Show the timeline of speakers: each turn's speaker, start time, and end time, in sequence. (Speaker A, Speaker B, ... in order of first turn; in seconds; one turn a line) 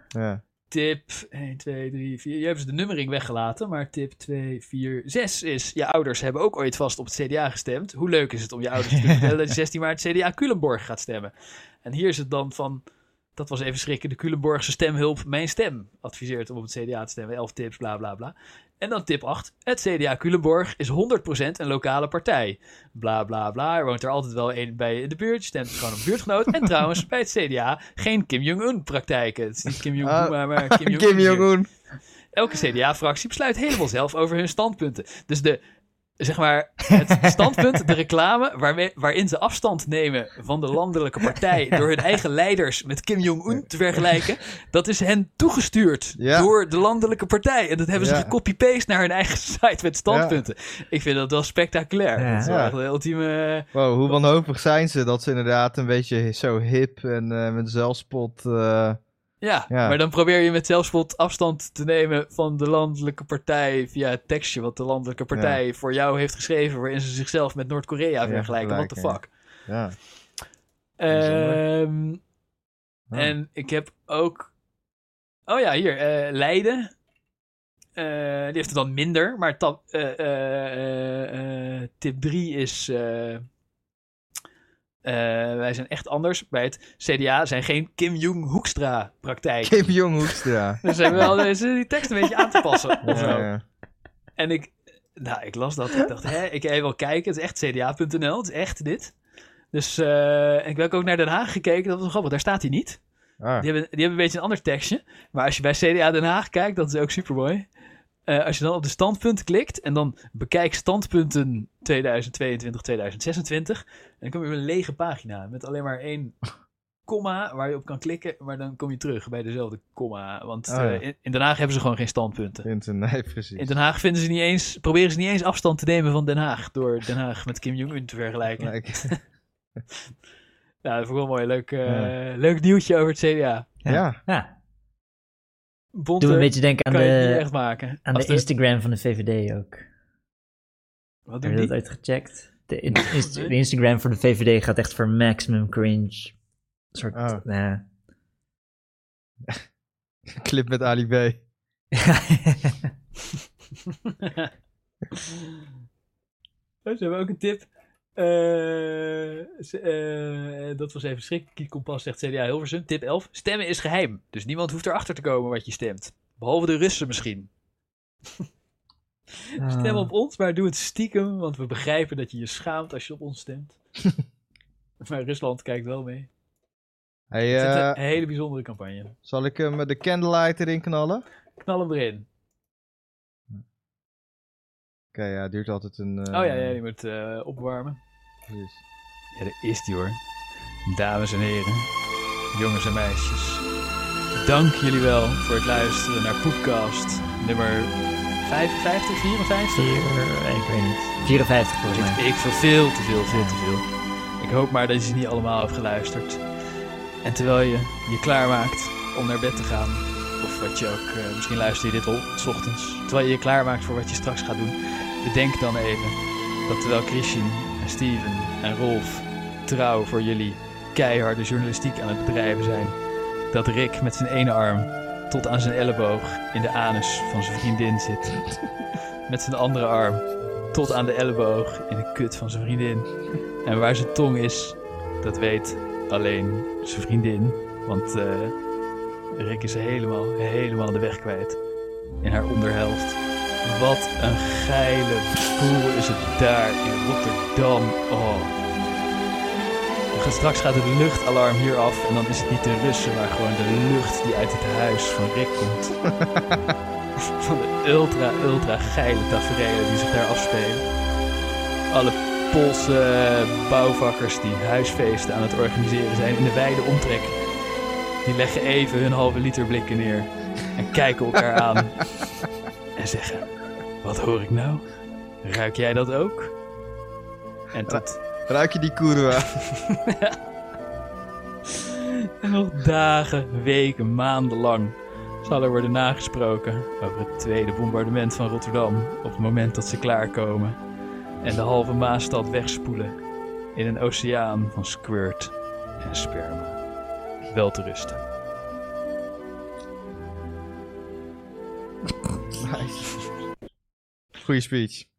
Speaker A: 0.1-0.4
Speaker B: 0.7-11.3
Speaker B: 11.8-12.8
Speaker B: 13.4-31.5
Speaker A: 30.0-31.7
Speaker B: 32.3-35.6
Speaker B: 36.2-54.1
Speaker A: 46.2-46.5
Speaker A: 48.0-48.3
Speaker A: 50.1-50.4
Speaker C: 52.2-52.5
Speaker A: 52.4-52.8
Speaker A: 53.7-59.0
Speaker B: 59.4-69.3
Speaker A: 59.7-60.0
Speaker A: 65.3-65.6
Speaker A: 68.2-70.0
Speaker B: 71.0-72.2
Speaker A: 71.1-71.6
Speaker B: 73.1-74.5
Speaker B: 75.5-76.9
Speaker B: 78.0-83.4
Speaker B: 85.0-93.5
Speaker A: 89.7-91.4
Speaker A: 93.0-93.6
Speaker B: 94.4-99.1
Speaker B: 99.7-103.0
Speaker A: 103.4-103.7
Speaker B: 103.6-107.7
Speaker B: 108.3-116.4
Speaker B: 117.1-122.7
Speaker A: 120.7-121.0
Speaker A: 122.6-123.7
Speaker B: 123.6-129.2
Speaker A: 128.6-129.1
Speaker B: 130.8-133.7
Speaker A: 131.9-132.1
Speaker C: 133.8-134.5
Speaker A: 133.9-134.2
Speaker B: 135.9-138.4
Speaker C: 136.2-137.5
Speaker C: 138.1-139.8
Speaker B: 141.3-141.7
Speaker C: 141.4-146.3
Speaker B: 143.0-143.6
Speaker C: 146.9-147.8
Speaker A: 147.2-147.4
Speaker A: 150.3-151.4
Speaker C: 151.9-152.9
Speaker B: 154.2-154.5
Speaker B: 156.9-167.5
Speaker B: 169.5-173.8
Speaker C: 169.6-170.1
Speaker B: 175.0-176.3
Speaker A: 177.3-178.0
Speaker B: 177.5-179.2
Speaker A: 179.3-181.2
Speaker B: 181.6-182.3
Speaker A: 185.1-186.8
Speaker B: 186.3-188.0
Speaker A: 188.5-188.8
Speaker B: 189.3-190.2
Speaker B: 190.9-191.9
Speaker B: 192.5-193.7
Speaker B: 194.3-200.0
Speaker C: 199.8-202.2
Speaker B: 201.9-203.8
Speaker C: 203.3-203.6
Speaker B: 204.4-206.4
Speaker B: 207.2-223.0
Speaker B: 223.5-228.6
Speaker B: 229.3-233.1
Speaker B: 233.6-238.5
Speaker B: 239.3-241.6
Speaker B: 242.2-248.5
Speaker B: 250.2-256.0
Speaker B: 257.4-260.9
Speaker B: 261.9-267.4
Speaker B: 268.2-272.1
Speaker B: 273.0-273.5
Speaker B: 274.0-274.9
Speaker B: 275.4-276.5
Speaker B: 277.7-278.2
Speaker A: 277.9-279.5
Speaker B: 279.6-280.4
Speaker B: 281.9-290.8
Speaker B: 291.4-293.1
Speaker B: 293.8-296.8
Speaker B: 297.5-298.2
Speaker A: 302.6-303.2
Speaker A: 304.4-305.1